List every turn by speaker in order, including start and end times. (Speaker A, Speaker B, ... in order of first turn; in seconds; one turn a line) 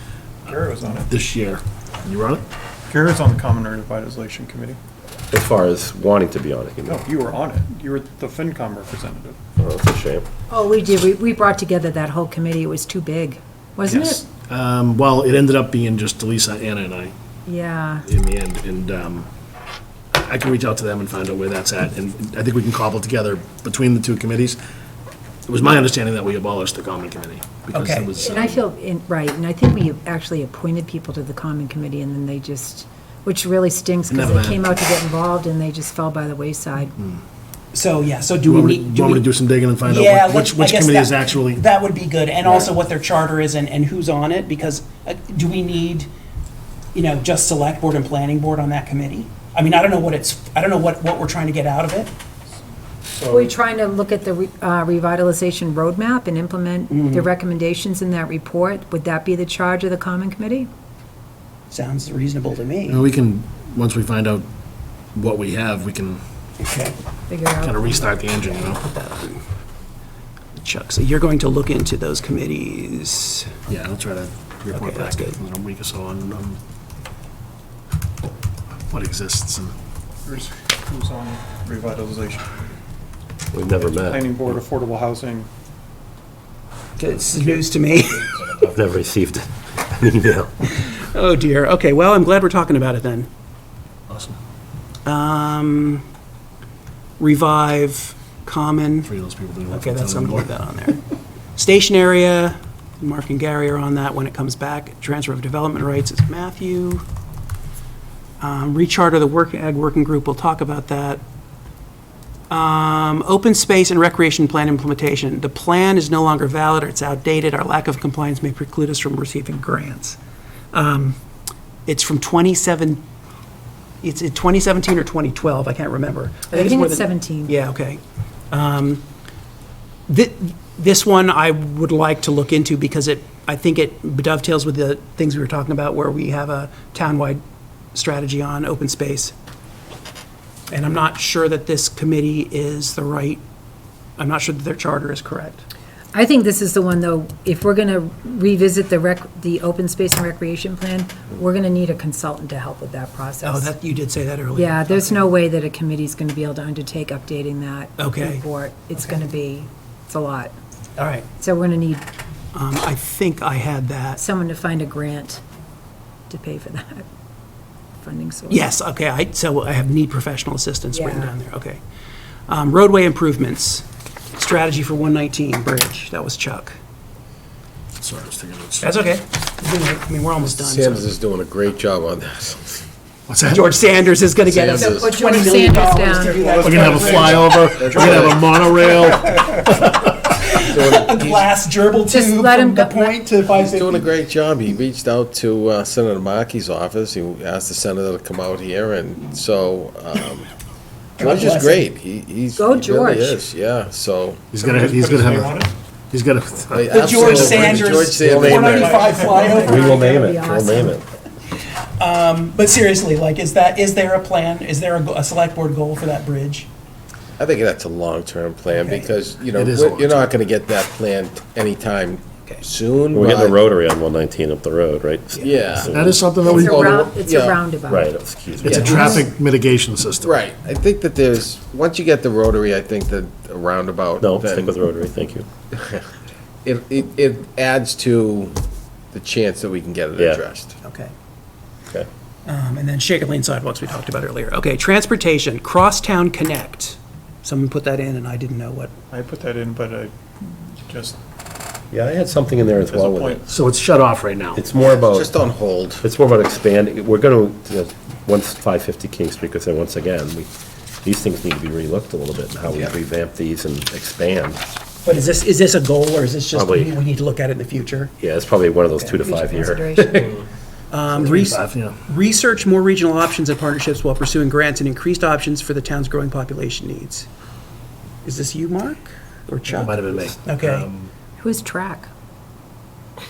Speaker A: 0.5-1.1
Speaker B: 0.5-2.4
Speaker A: 2.9-4.8
Speaker C: 5.3-7.0
Speaker A: 6.9-9.4
Speaker C: 9.6-10.2
Speaker D: 10.5-14.2
Speaker B: 13.9-17.1
Speaker D: 17.4-18.1
Speaker B: 18.1-19.3
Speaker B: 20.1-24.6
Speaker B: 25.5-28.6
Speaker E: 27.7-28.1
Speaker D: 28.1-37.0
Speaker B: 34.1-34.8
Speaker E: 37.7-39.3
Speaker B: 38.4-41.6
Speaker E: 39.9-46.1
Speaker E: 46.9-52.1
Speaker A: 53.1-53.5
Speaker D: 53.3-60.7
Speaker E: 56.9-57.3
Speaker E: 61.7-63.1
Speaker B: 62.9-64.5
Speaker B: 65.1-66.2
Speaker E: 66.6-67.0
Speaker D: 67.3-68.2
Speaker B: 67.6-68.8
Speaker E: 68.4-69.5
Speaker E: 70.6-73.5
Speaker B: 73.7-76.6
Speaker E: 74.7-75.4
Speaker B: 78.9-79.7
Speaker A: 80.2-82.7
Speaker C: 83.5-84.5
Speaker A: 83.7-85.5
Speaker E: 87.0-88.3
Speaker A: 87.4-88.0
Speaker C: 88.6-90.5
Speaker E: 90.7-93.3
Speaker B: 94.1-94.4
Speaker E: 95.0-96.0
Speaker E: 97.2-99.1
Speaker B: 99.0-100.5
Speaker E: 99.7-101.0
Speaker E: 101.5-107.0
Speaker E: 108.4-111.2
Speaker E: 112.5-120.2
Speaker E: 120.7-121.2
Speaker E: 121.8-123.0
Speaker E: 124.0-129.0
Speaker D: 126.5-127.5
Speaker E: 130.1-137.4
Speaker E: 137.9-139.3
Speaker E: 140.7-143.4
Speaker E: 144.2-145.6
Speaker D: 146.1-153.7
Speaker E: 153.4-155.4
Speaker D: 154.5-160.5
Speaker E: 158.0-158.4
Speaker E: 161.0-161.3
Speaker D: 161.4-162.0
Speaker E: 162.5-164.2
Speaker D: 164.2-165.4
Speaker D: 166.3-167.0
Speaker D: 168.0-168.7
Speaker E: 168.5-171.8
Speaker D: 170.9-171.3
Speaker E: 172.5-176.8
Speaker B: 178.0-179.0
Speaker E: 178.8-181.1
Speaker F: 180.4-182.8
Speaker B: 183.3-183.7
Speaker E: 183.5-187.4
Speaker F: 184.4-185.2
Speaker D: 184.8-186.5
Speaker A: 186.3-189.2
Speaker B: 186.6-190.3
Speaker F: 187.6-188.5
Speaker E: 190.4-194.1
Speaker F: 190.6-191.5
Speaker D: 192.1-193.2
Speaker F: 193.4-200.5
Speaker E: 201.2-201.9
Speaker F: 201.2-204.4
Speaker D: 202.6-203.4
Speaker B: 204.5-205.6
Speaker A: 204.5-205.7
Speaker B: 206.1-207.2
Speaker F: 206.7-209.6
Speaker E: 206.9-209.9
Speaker A: 207.3-207.7
Speaker C: 207.5-208.9
Speaker A: 208.3-209.7
Speaker C: 209.6-211.1
Speaker D: 209.6-211.0
Speaker E: 212.0-216.7
Speaker F: 217.4-223.6
Speaker E: 218.7-219.1
Speaker B: 219.5-220.3
Speaker C: 223.1-226.3
Speaker E: 225.4-225.7
Speaker F: 225.4-227.6
Speaker B: 225.8-227.0
Speaker D: 226.4-228.1
Speaker C: 227.9-229.2
Speaker B: 228.6-230.4
Speaker F: 228.6-229.2
Speaker F: 230.2-234.7
Speaker C: 234.2-235.5
Speaker F: 235.7-236.0
Speaker F: 236.6-238.6
Speaker F: 239.1-240.7
Speaker E: 240.8-241.1
Speaker E: 242.4-248.9
Speaker A: 249.1-250.1
Speaker A: 250.8-251.2
Speaker C: 251.9-253.4
Speaker A: 252.8-253.4
Speaker B: 253.5-254.6
Speaker C: 254.5-255.3
Speaker F: 254.8-256.0
Speaker C: 256.0-260.5
Speaker C: 261.0-264.6
Speaker F: 262.7-262.9
Speaker E: 265.0-268.1
Speaker C: 266.5-266.9
Speaker C: 268.2-270.3
Speaker D: 269.2-270.3
Speaker E: 270.9-277.3
Speaker B: 271.1-272.0
Speaker E: 278.2-280.9
Speaker B: 279.7-281.1
Speaker D: 281.4-282.1